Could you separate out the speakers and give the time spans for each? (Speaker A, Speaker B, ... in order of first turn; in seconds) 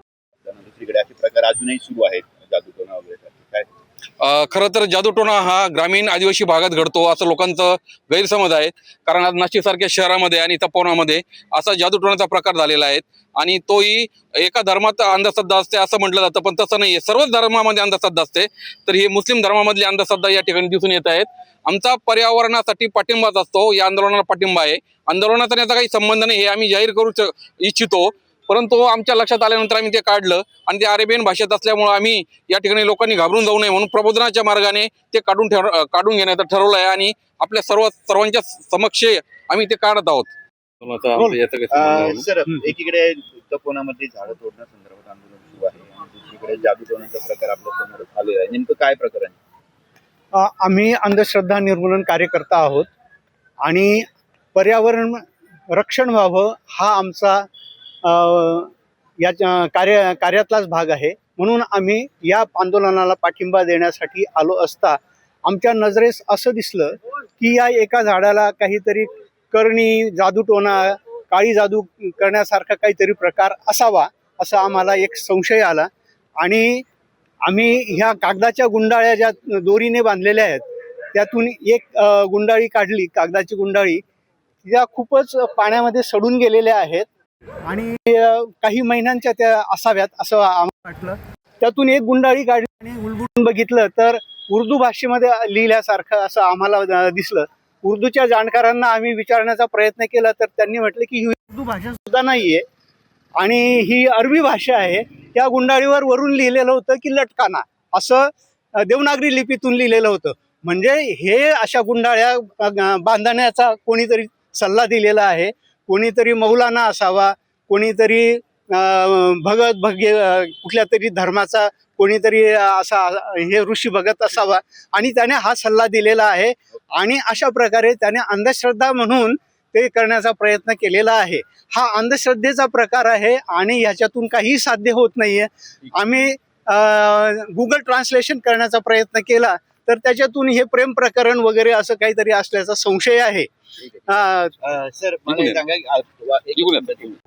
Speaker A: 0.4-3.7, 41.7-49.4, 144.6-147.1
Speaker B: 4.2-40.3, 40.8-42.3, 145.3-145.6, 146.5-147.0
Speaker C: 50.3-52.9, 53.6-57.5, 58.0-75.9, 76.4-76.8, 77.4-84.0, 84.6-87.1, 87.6-102.6, 103.4-143.5, 144.1-144.5